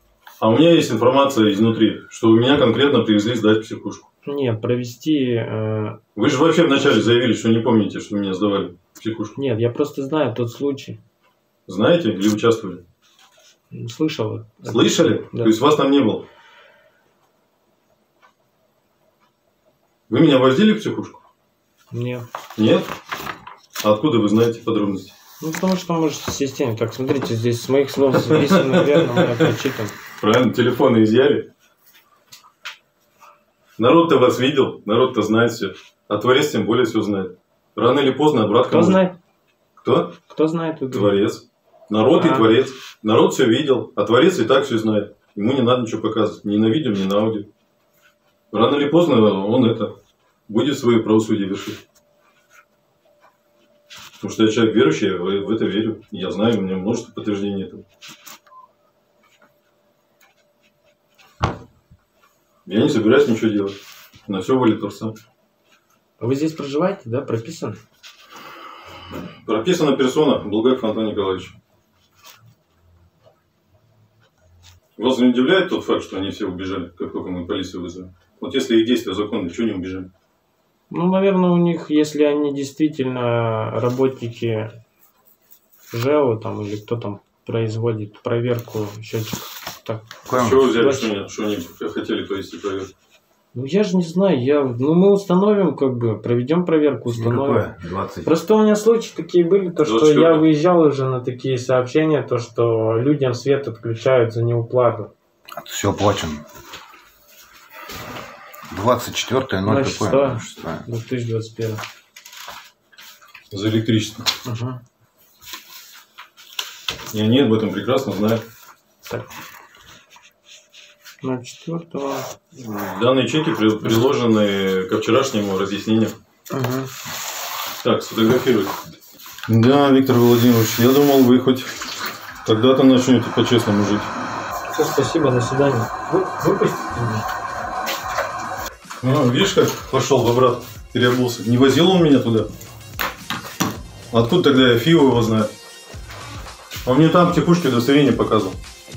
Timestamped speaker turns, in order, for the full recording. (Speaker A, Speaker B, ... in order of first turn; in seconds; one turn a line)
Speaker A: 0.4-4.1
Speaker B: 4.2-6.0
Speaker A: 6.2-9.3
Speaker B: 9.4-11.0
Speaker A: 11.7-12.8
Speaker B: 13.7-15.5
Speaker A: 14.7-16.2
Speaker A: 20.1-21.2
Speaker B: 21.9-22.3
Speaker A: 22.6-22.9
Speaker A: 23.8-25.1
Speaker B: 25.4-29.9
Speaker A: 28.2-29.5
Speaker A: 30.2-31.5
Speaker A: 33.8-39.0
Speaker B: 38.7-39.2
Speaker A: 39.8-40.2
Speaker B: 40.3-41.1
Speaker A: 40.9-47.5
Speaker B: 42.1-42.5
Speaker A: 48.5-49.9
Speaker A: 50.5-51.8
Speaker A: 54.2-57.8
Speaker A: 62.6-63.8
Speaker A: 64.3-65.1
Speaker B: 66.2-67.8
Speaker A: 69.4-71.5
Speaker A: 75.0-80.1
Speaker B: 80.9-84.8
Speaker B: 85.9-91.1
Speaker C: 90.3-90.6
Speaker A: 90.4-92.9
Speaker B: 93.5-97.7
Speaker C: 97.1-98.3
Speaker B: 98.2-105.1
Speaker A: 99.8-100.5
Speaker C: 105.6-106.4
Speaker C: 108.7-110.8
Speaker B: 109.7-111.8
Speaker A: 113.5-114.3
Speaker B: 114.5-114.8
Speaker A: 117.1-118.4
Speaker B: 121.2-122.3
Speaker A: 122.5-126.2
Speaker B: 126.5-126.9
Speaker A: 127.8-128.7
Speaker A: 129.5-131.7
Speaker A: 132.4-134.1
Speaker B: 134.7-137.2
Speaker A: 139.0-142.5
Speaker A: 144.1-145.5
Speaker A: 146.8-148.6